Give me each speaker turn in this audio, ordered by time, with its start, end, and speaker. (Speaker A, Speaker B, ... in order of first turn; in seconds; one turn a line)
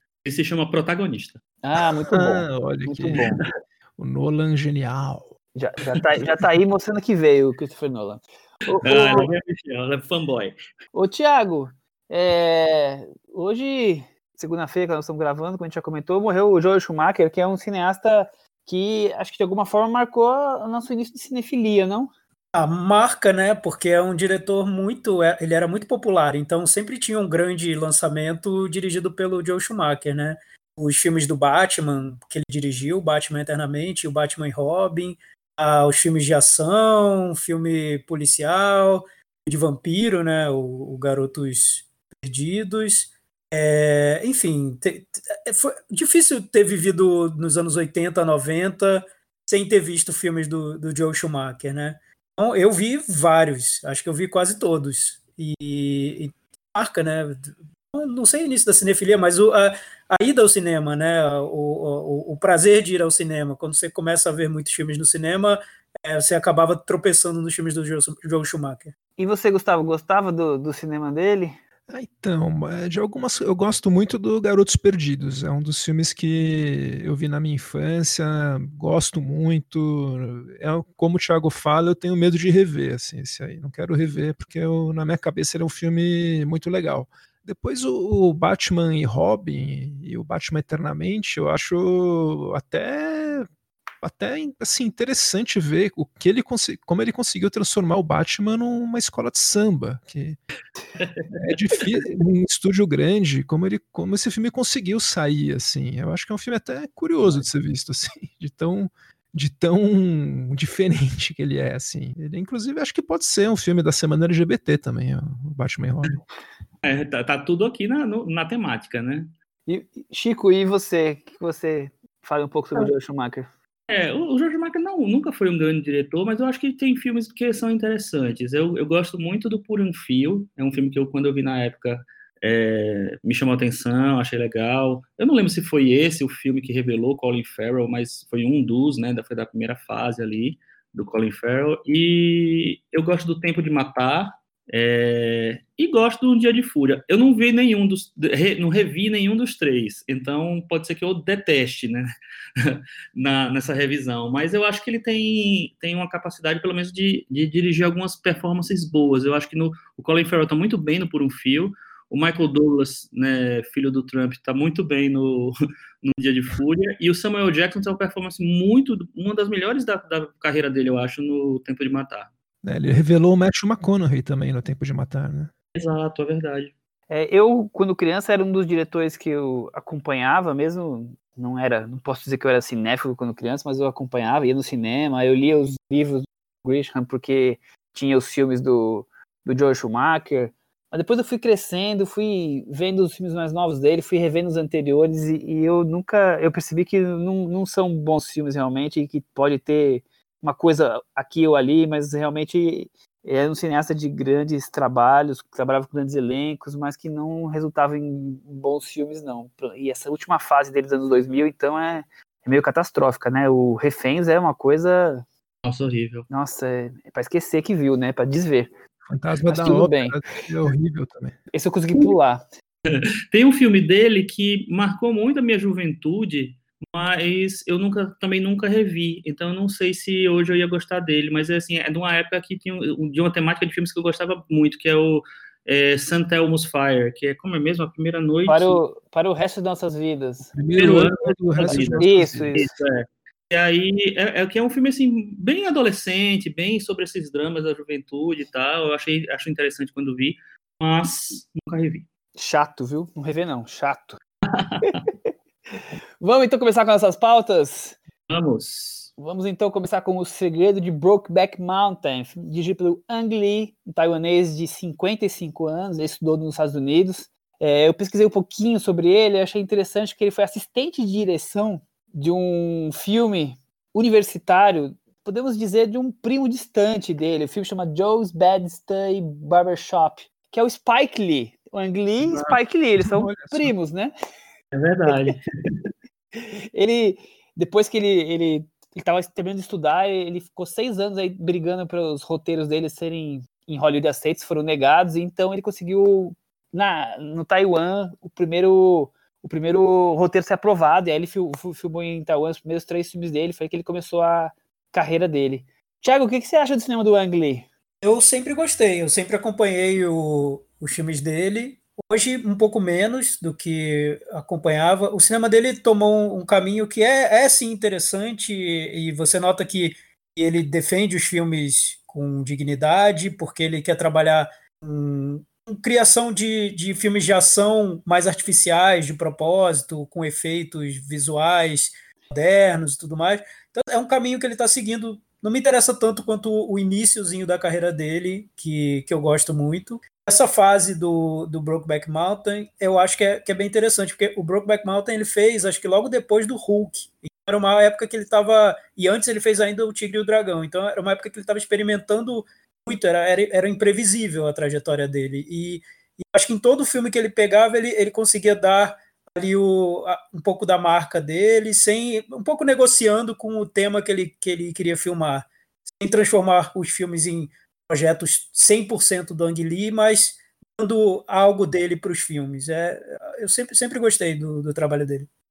Speaker A: 0.2-1.4
Speaker B: 1.6-3.4
Speaker C: 2.1-3.4
Speaker C: 4.0-5.3
Speaker B: 5.5-9.3
Speaker A: 8.8-10.6
Speaker B: 10.9-22.1
Speaker D: 22.5-68.9
Speaker B: 69.2-71.6
Speaker C: 71.9-93.5
Speaker C: 94.0-100.4
Speaker A: 101.0-101.3
Speaker C: 101.3-116.2
Speaker A: 116.8-119.3
Speaker B: 119.7-123.5
Speaker A: 123.9-172.3
Speaker C: 172.6-175.5
Speaker A: 175.8-176.7
Speaker B: 177.1-215.2
Speaker A: 215.6-216.3
Speaker B: 216.3-218.7
Speaker C: 219.1-221.4
Speaker B: 219.5-220.2
Speaker B: 221.5-222.4
Speaker A: 222.9-238.8
Speaker B: 238.5-240.5
Speaker C: 240.5-242.5
Speaker A: 240.8-252.1
Speaker B: 241.6-242.7
Speaker B: 252.4-254.2
Speaker A: 254.5-255.0
Speaker B: 256.2-258.0
Speaker A: 258.3-259.1
Speaker B: 259.2-284.1
Speaker A: 282.2-282.6
Speaker C: 283.0-283.7
Speaker A: 284.7-285.8
Speaker B: 286.4-307.6
Speaker D: 308.0-375.3